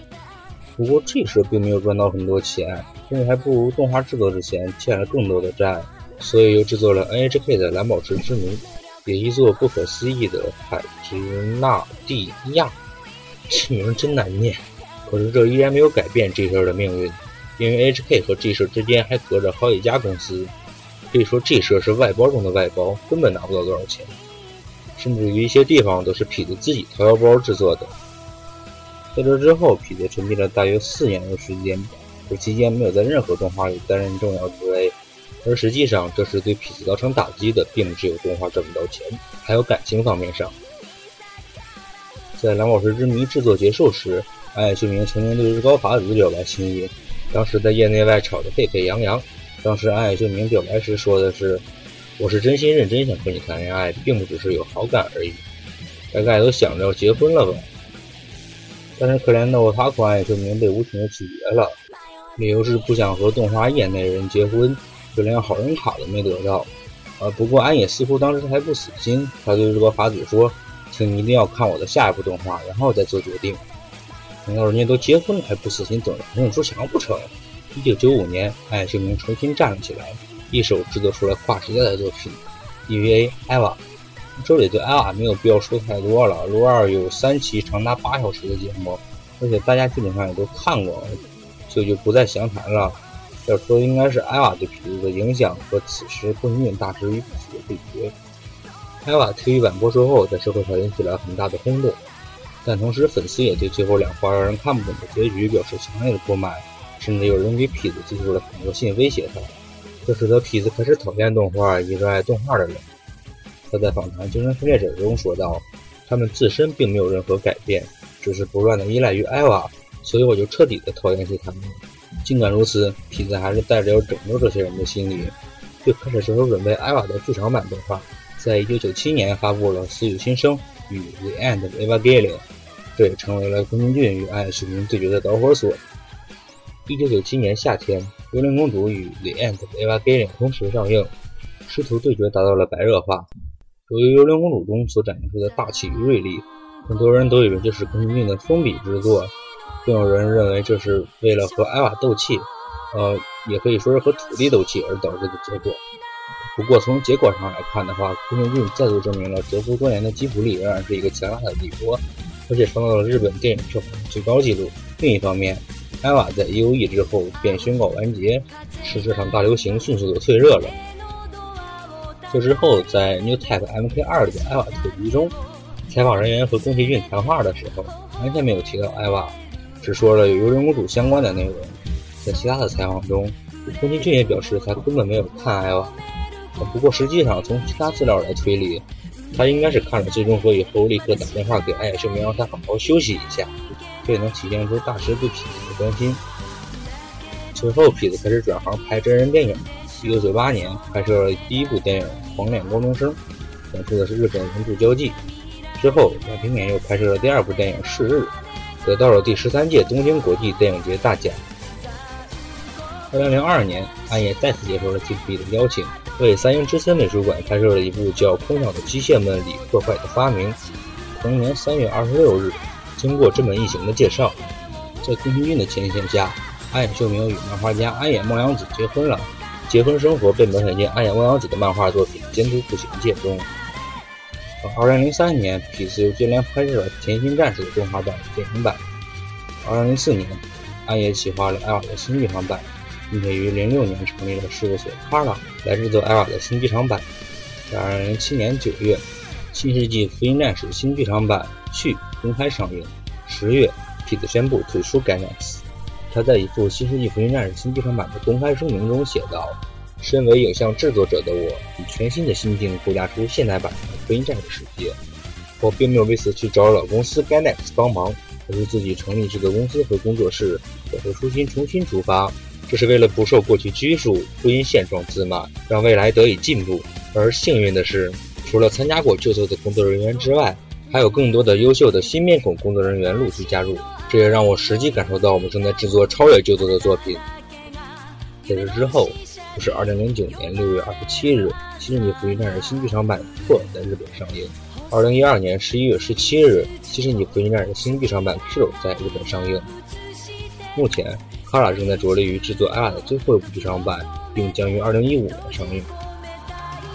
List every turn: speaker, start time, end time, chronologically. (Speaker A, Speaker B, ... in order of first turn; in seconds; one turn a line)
Speaker A: 0.8-12.8
Speaker A: 13.5-20.5
Speaker A: 21.1-24.2
Speaker A: 24.9-27.9
Speaker A: 29.1-40.5
Speaker A: 42.4-51.6
Speaker A: 52.2-55.4
Speaker A: 56.1-57.7
Speaker A: 59.0-61.8
Speaker A: 62.4-73.6
Speaker A: 74.4-83.8
Speaker A: 84.4-98.1
Speaker A: 99.0-102.0
Speaker A: 102.6-109.5
Speaker A: 110.0-112.8
Speaker A: 113.7-132.4
Speaker A: 132.9-135.8
Speaker A: 136.8-141.1
Speaker A: 141.7-143.3
Speaker A: 143.9-155.8
Speaker A: 156.5-170.8
Speaker A: 172.3-175.3
Speaker A: 175.9-185.9
Speaker A: 186.5-193.5
Speaker A: 194.0-196.2
Speaker A: 197.5-203.2
Speaker A: 203.7-205.2
Speaker A: 205.8-211.4
Speaker A: 213.1-220.6
Speaker A: 221.1-224.4
Speaker A: 225.0-233.5
Speaker A: 234.6-238.8
Speaker A: 239.6-247.1
Speaker A: 247.7-265.0
Speaker A: 265.6-287.2
Speaker A: 288.4-299.7
Speaker A: 300.7-305.9